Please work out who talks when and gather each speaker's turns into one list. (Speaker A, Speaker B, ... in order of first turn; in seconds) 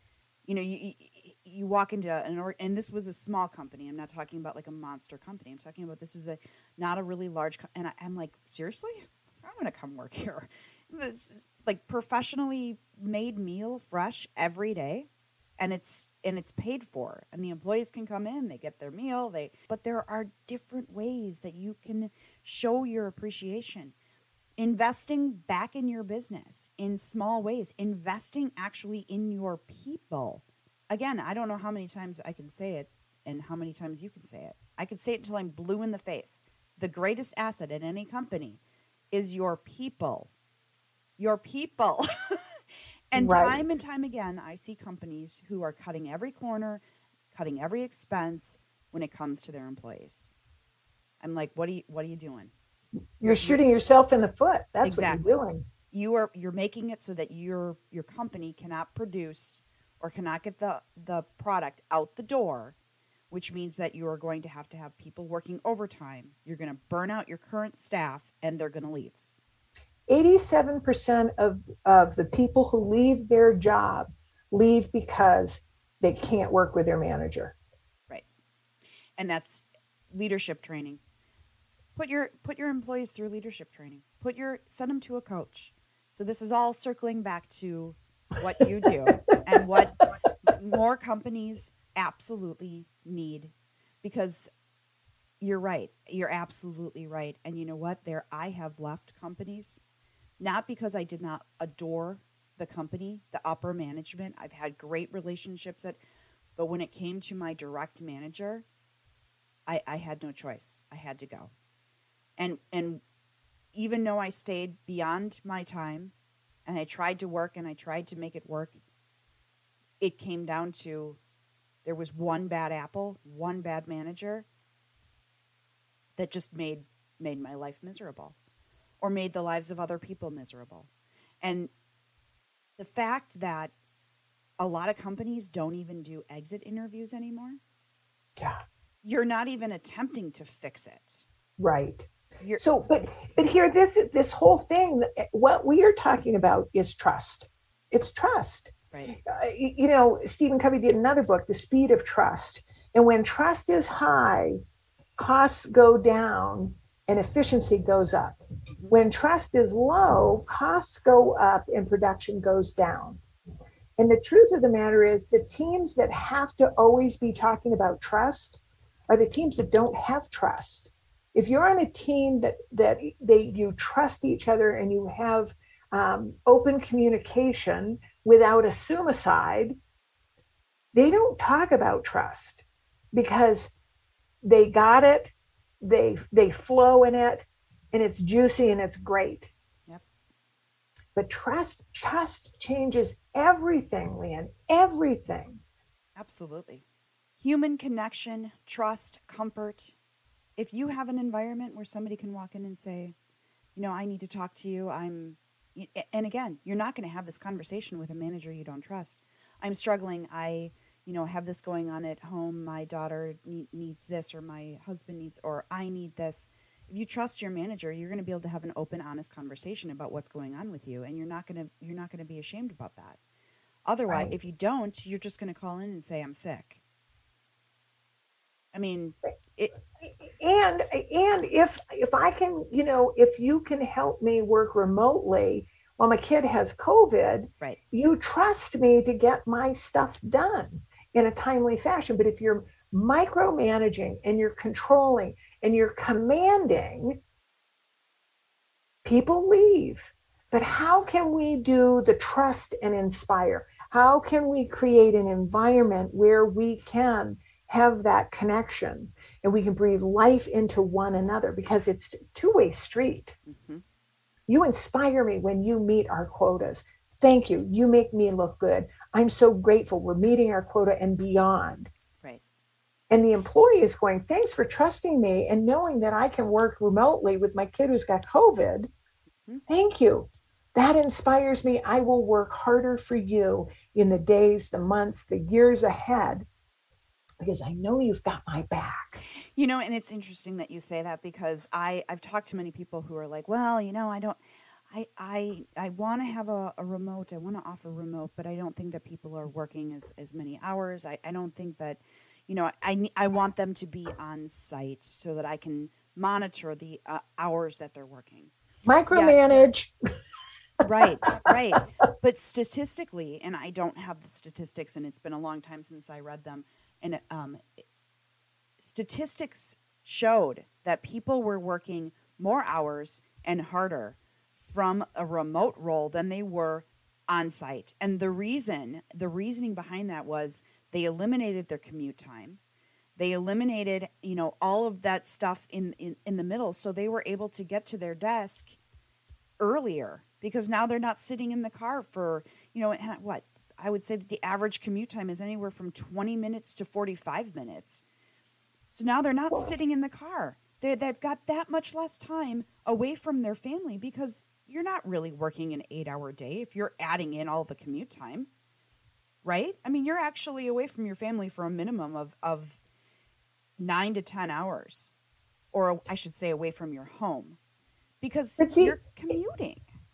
Speaker A: 0.5-23.9, 24.6-38.6, 39.1-40.3, 41.2-42.6, 43.1-50.3, 51.2-52.5, 53.2-53.6, 54.8-55.4, 55.9-62.8, 63.3-69.2, 79.2-81.0, 82.0-94.5, 95.4-99.8, 100.4-106.0, 106.6-108.7, 109.7-111.5, 112.4-113.0, 113.7-116.1, 116.7-118.8, 120.0-121.2, 121.8-124.5, 126.2-128.4, 129.0-130.9, 131.4-131.7, 132.8-133.7, 134.6-137.6, 139.0-141.3, 142.4-142.7, 196.2-196.8, 197.4-199.9, 200.6-203.1, 203.8-223.2, 223.9-226.8, 228.7-229.8, 263.5-263.8, 289.6-294.4, 294.9-308.5, 309.1-309.4, 310.8-317.8, 318.8-332.6, 333.2-338.8, 339.6-348.0, 348.9-358.5, 359.4-362.8, 363.8-365.2, 365.7-367.6, 368.2-369.9
Speaker B: 43.2-43.6, 53.2-55.6, 70.1-77.5, 141.6-154.6, 155.2-158.4, 158.9-163.2, 164.0-179.8, 180.9-183.7, 184.4-189.5, 191.1-195.6, 224.1-224.3, 230.0-247.2, 249.0-263.3, 264.5-271.9, 273.1-278.9, 279.7-286.5, 287.4-289.2, 308.9-309.9, 368.6-369.0